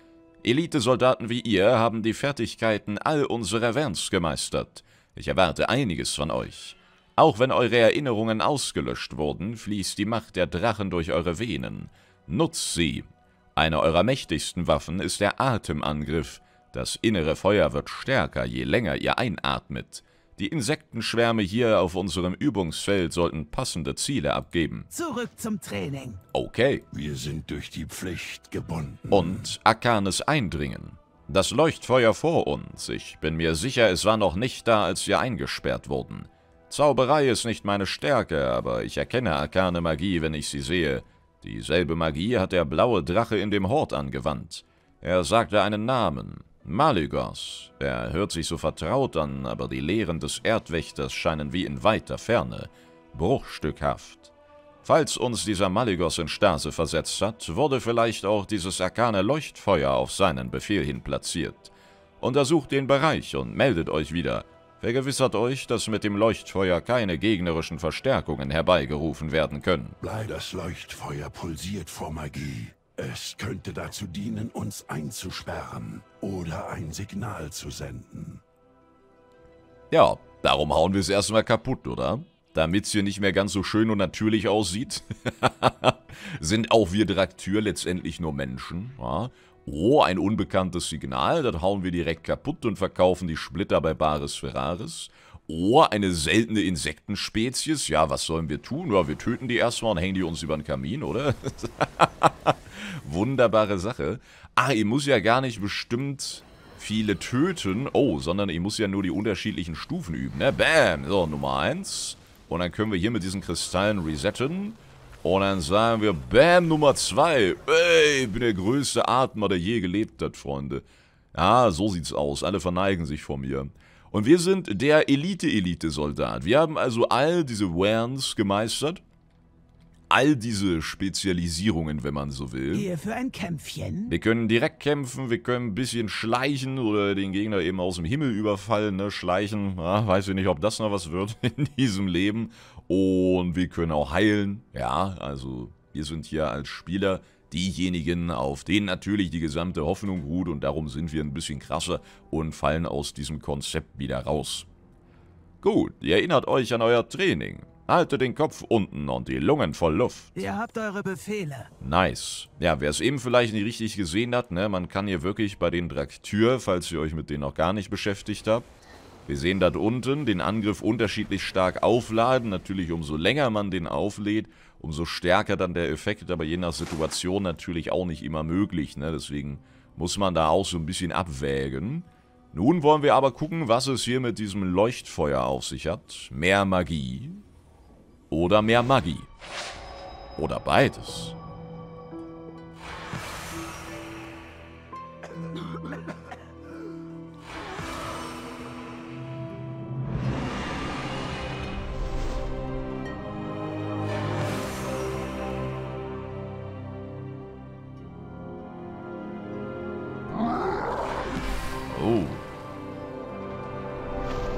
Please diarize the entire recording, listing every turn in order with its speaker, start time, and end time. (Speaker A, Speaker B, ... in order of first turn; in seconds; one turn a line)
Speaker A: 0.4-24.9
Speaker B: 24.9-26.2
Speaker A: 26.3-26.8
Speaker C: 26.9-29.5
Speaker A: 29.1-54.3
Speaker A: 54.8-70.0
Speaker C: 70.0-78.4
Speaker A: 79.9-129.0
Speaker A: 130.1-132.9
Speaker B: 132.7-134.2
Speaker A: 134.1-154.7
Speaker A: 155.6-160.3
Speaker B: 160.3-161.7
Speaker A: 161.8-168.7
Speaker A: 169.3-187.4
Speaker A: 188.3-189.3
Speaker A: 190.4-191.4
Speaker A: 211.9-212.4